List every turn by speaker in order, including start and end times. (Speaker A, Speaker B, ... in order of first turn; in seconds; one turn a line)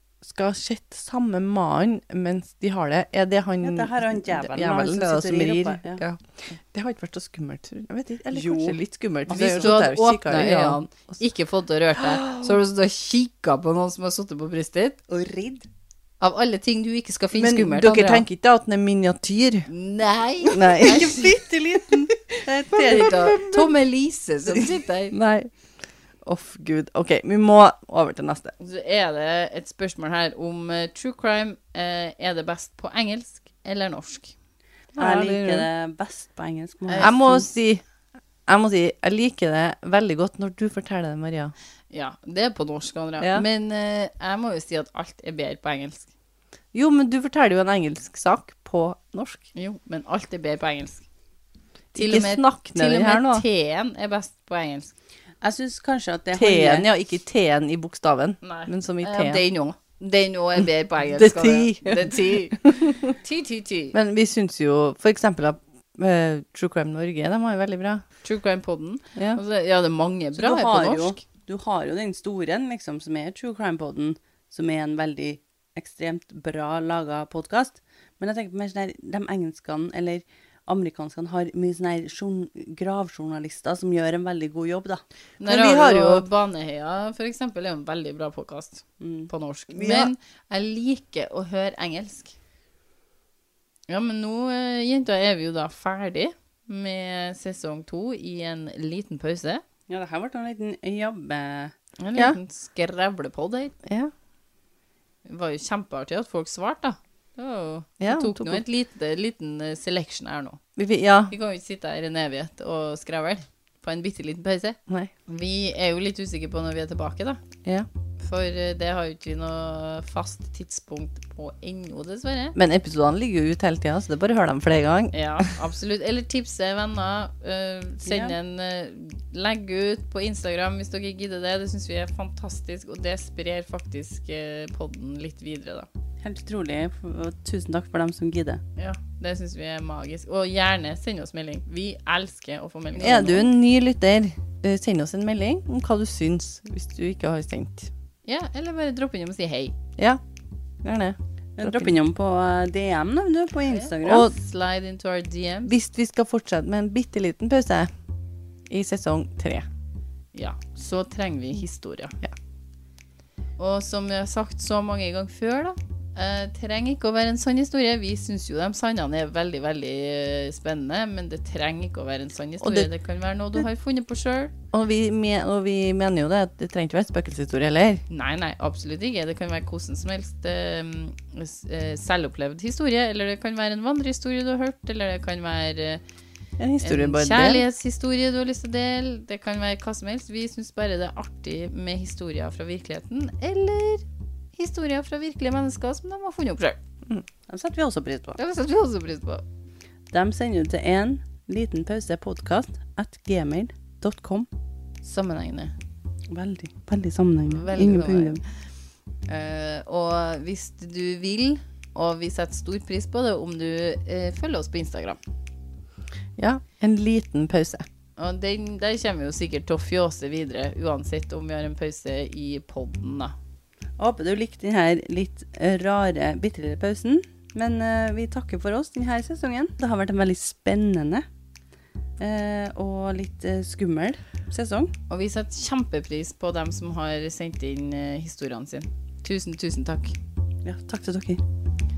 Speaker A: 0.2-11.2
Speaker B: 3.6-6.0
Speaker B: 8.3-9.8
Speaker C: 9.3-15.0
Speaker A: 12.0-12.6
Speaker B: 15.1-15.7
Speaker C: 16.2-18.2
Speaker A: 17.3-19.7
Speaker C: 19.7-21.3
Speaker A: 20.5-21.2
Speaker B: 20.6-23.4
Speaker A: 22.7-23.7
Speaker C: 22.7-25.1
Speaker A: 24.5-25.5
Speaker A: 26.2-28.5
Speaker C: 28.6-34.3
Speaker A: 35.0-35.7
Speaker B: 35.0-37.3
Speaker C: 36.9-37.5
Speaker A: 37.0-37.8
Speaker A: 38.5-41.5
Speaker C: 41.9-46.1
Speaker A: 43.2-43.5
Speaker A: 46.7-49.5
Speaker C: 49.5-51.0
Speaker A: 51.9-53.4
Speaker C: 51.9-54.9
Speaker B: 55.4-56.9
Speaker A: 56.3-59.4
Speaker C: 58.4-64.0
Speaker A: 61.1-62.9
Speaker A: 63.9-68.0
Speaker C: 68.2-71.2
Speaker A: 69.2-69.4
Speaker B: 70.3-85.0
Speaker C: 85.4-92.3
Speaker A: 85.4-86.2
Speaker B: 89.0-89.3
Speaker A: 89.7-90.1
Speaker C: 93.9-99.6
Speaker B: 99.9-101.7
Speaker C: 102.0-103.7
Speaker A: 103.8-104.1
Speaker C: 105.2-110.6
Speaker A: 108.0-108.6
Speaker A: 110.8-111.3
Speaker C: 111.3-117.4
Speaker C: 118.2-122.5
Speaker A: 122.5-125.5
Speaker C: 125.1-135.9
Speaker B: 128.0-128.3
Speaker B: 136.2-138.6
Speaker C: 138.8-143.5
Speaker A: 143.0-147.9
Speaker C: 148.2-149.7
Speaker A: 150.8-151.9
Speaker B: 151.6-154.3
Speaker C: 153.7-155.7
Speaker A: 154.0-154.3
Speaker A: 155.7-157.9
Speaker A: 158.7-159.7
Speaker C: 160.3-162.1
Speaker C: 163.6-174.5
Speaker A: 172.6-172.9
Speaker A: 174.7-178.0
Speaker C: 178.1-186.0
Speaker A: 186.6-187.6
Speaker C: 186.8-196.8
Speaker B: 197.5-198.4
Speaker C: 198.4-199.4
Speaker B: 200.1-204.5
Speaker C: 205.0-205.7
Speaker B: 206.3-208.4
Speaker C: 207.5-208.4
Speaker C: 209.3-215.2
Speaker A: 216.4-217.8
Speaker C: 218.2-223.3
Speaker B: 224.0-231.2
Speaker B: 232.2-234.9
Speaker C: 235.1-240.2
Speaker B: 240.6-241.4